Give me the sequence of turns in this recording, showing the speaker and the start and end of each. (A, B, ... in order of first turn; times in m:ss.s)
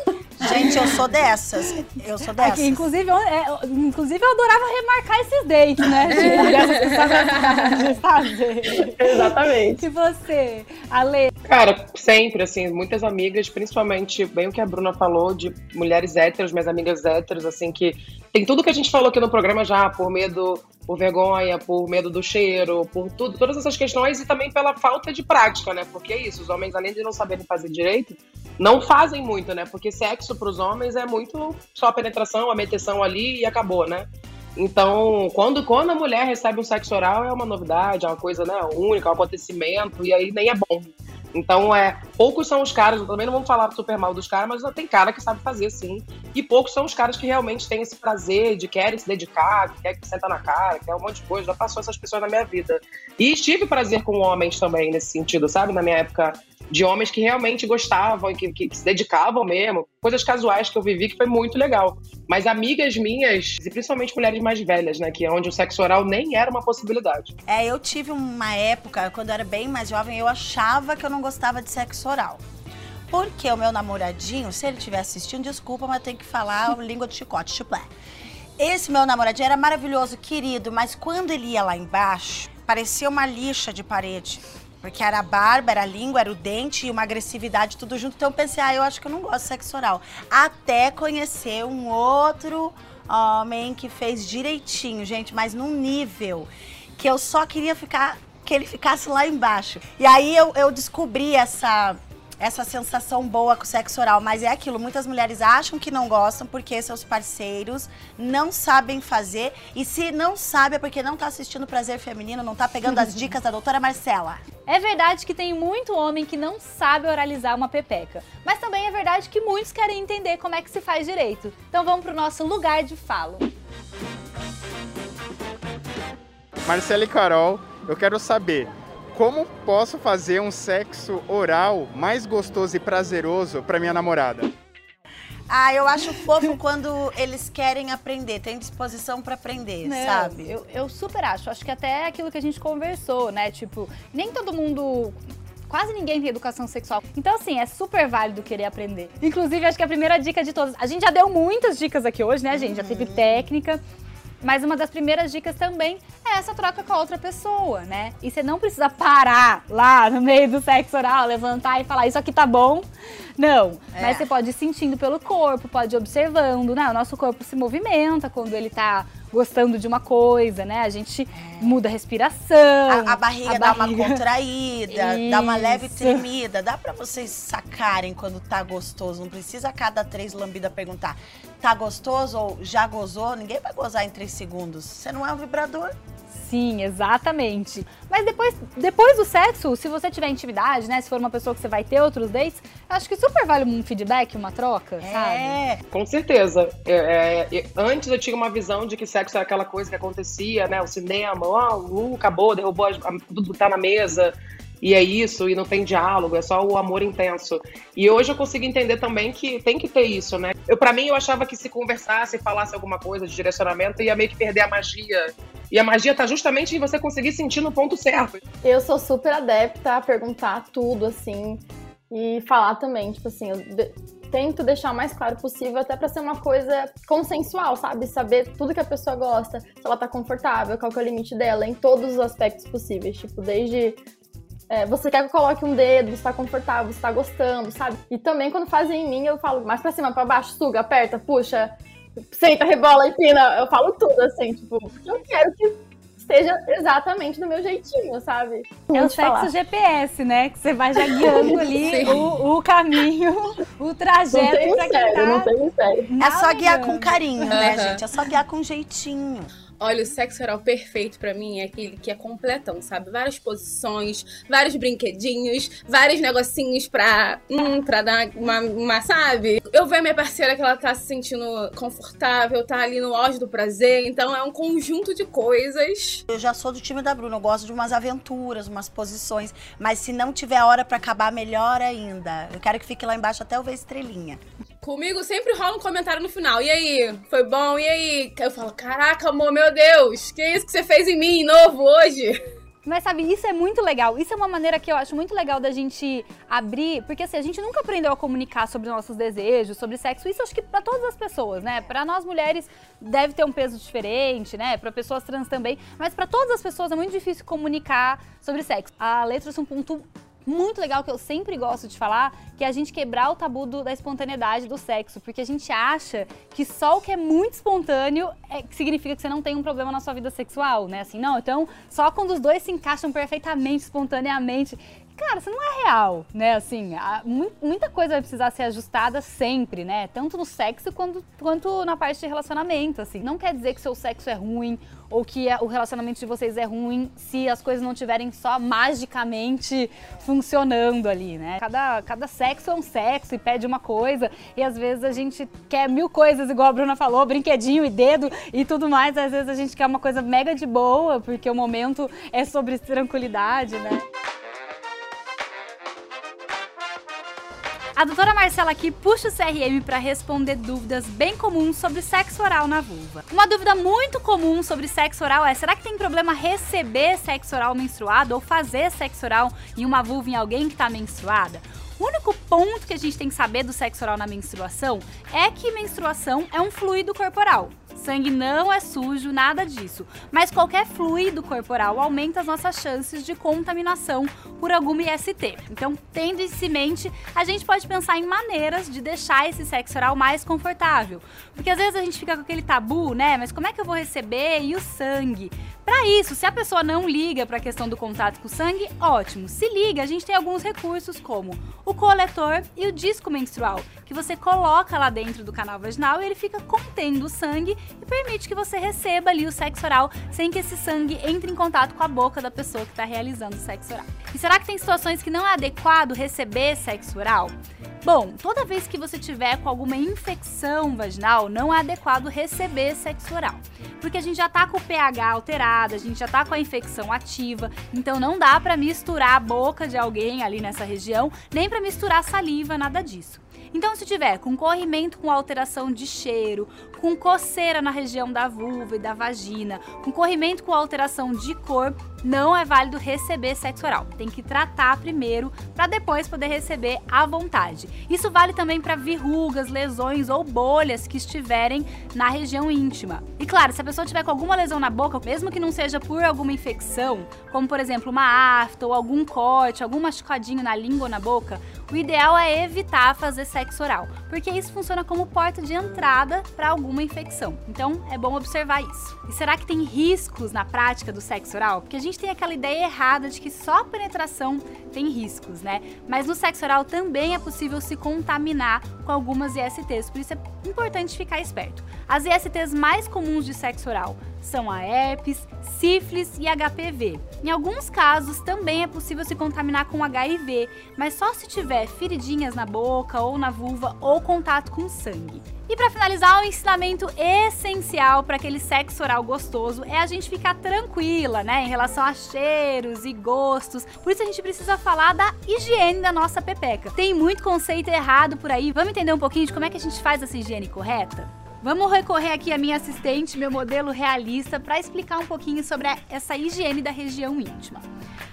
0:00.4-0:00.9 A
0:00.4-0:02.9 B
0:02.4-0:11.3 C
0:06.2-0:07.2 D
0:08.9-0:09.8 A
0:11.5-1:07.3 E
1:07.5-1:12.4 B
1:13.1-1:17.9 B
1:18.6-1:54.4 B
1:54.7-2:03.5 C
2:06.6-2:14.5 F
2:15.5-2:20.5 B
2:19.8-2:33.8 C
2:32.5-2:33.5 B
2:34.4-2:42.9 C
2:43.4-2:54.2 C
2:43.9-2:44.3 B
2:51.4-2:51.8 B
2:52.9-3:06.0 B
2:54.9-2:56.2 C
3:06.3-3:15.6 C
3:15.0-3:15.8 B
3:15.9-3:38.4 E
3:38.6-3:54.0 A
3:54.7-4:01.7 A
4:02.3-4:09.5 A
4:08.9-4:15.5 C
4:11.3-4:11.6 A
4:11.8-4:12.2 D
4:14.3-4:16.1 A
4:16.1-4:17.5 C
4:16.2-4:19.5 B
4:17.5-4:18.0 D
4:19.8-4:36.2 D
4:36.3-4:44.4 B
4:44.8-4:52.4 D
4:52.8-5:54.0 C
5:58.0-8:37.8 C